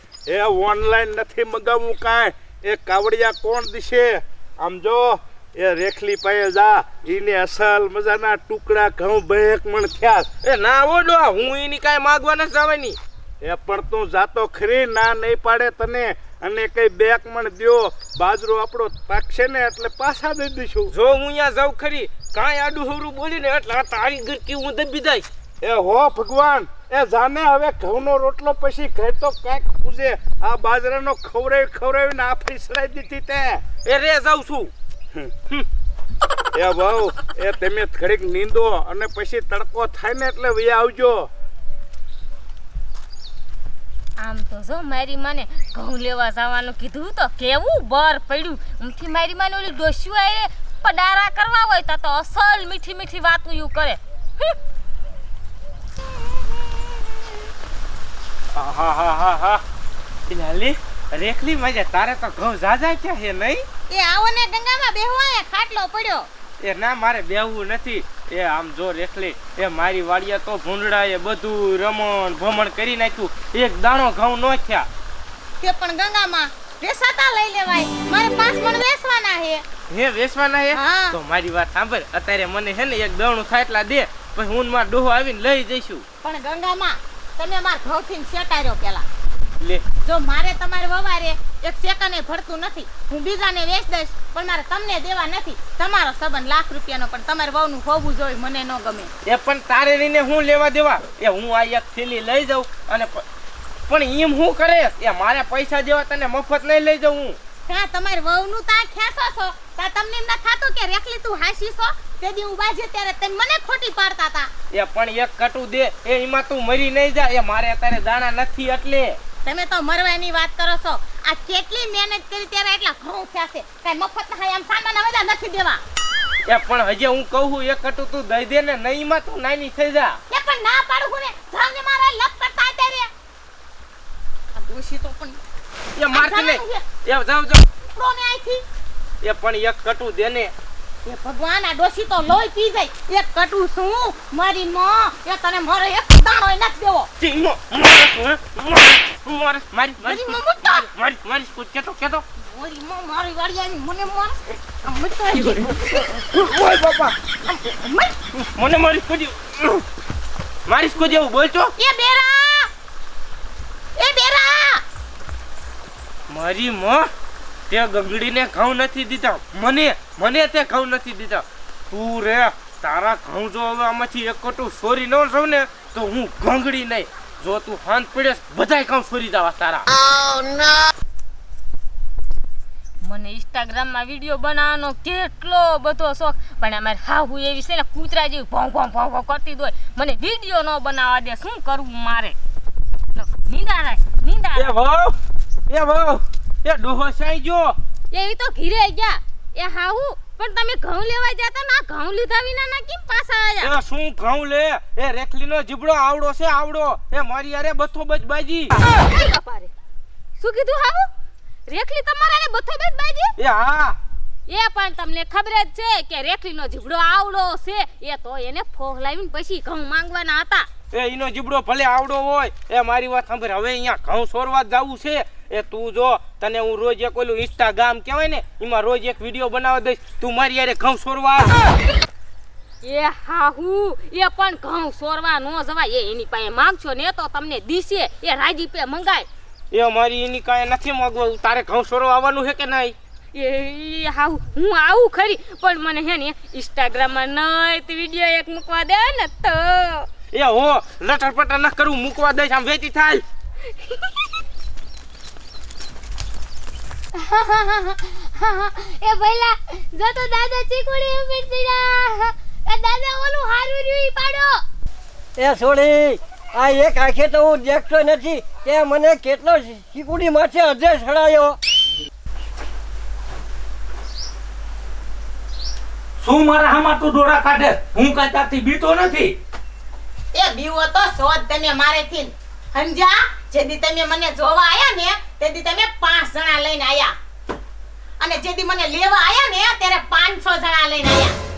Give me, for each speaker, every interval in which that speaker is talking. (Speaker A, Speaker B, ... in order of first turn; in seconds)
Speaker A: 0.2-10.3, 13.4-20.9, 25.6-33.6, 36.5-41.3
Speaker B: 10.4-13.0, 20.9-25.3, 33.8-34.7, 58.5-59.6, 60.3-63.6, 66.6-74.9, 79.9-86.0, 99.2-103.2, 103.9-107.4, 114.7-119.2, 126.5-130.2, 135.9-137.6, 139.2-140.5, 147.2-152.2, 156.1-157.2, 158.3-159.8, 160.7-161.7, 166.3-167.1, 167.7-179.9, 194.6-195.2, 195.7-197.8, 203.6-208.8, 213.4-214.0, 220.9-231.6, 239.7-242.9, 250.3-253.2
Speaker C: 44.2-54.5, 183.0-192.3, 193.1-194.7, 198.1-203.7, 208.9-209.7, 210.4-211.1, 211.7-213.3, 214.5-220.7, 232.8-239.3, 243.3-250.1, 253.8-254.1
Speaker D: 63.9-66.3, 75.6-79.6, 80.7-81.2, 86.2-89.0, 90.0-99.1, 107.7-114.5, 119.4-125.8, 130.3-133.1, 134.5-135.4, 136.1-136.8, 137.8-138.6, 141.0-147.1, 150.0-150.9, 152.4-156.0, 157.4-158.1, 161.8-162.7, 164.0-164.8, 280.3-287.1, 288.2-291.4
Speaker E: 257.3-264.6
Speaker F: 265.4-271.6
Speaker G: 276.2-279.3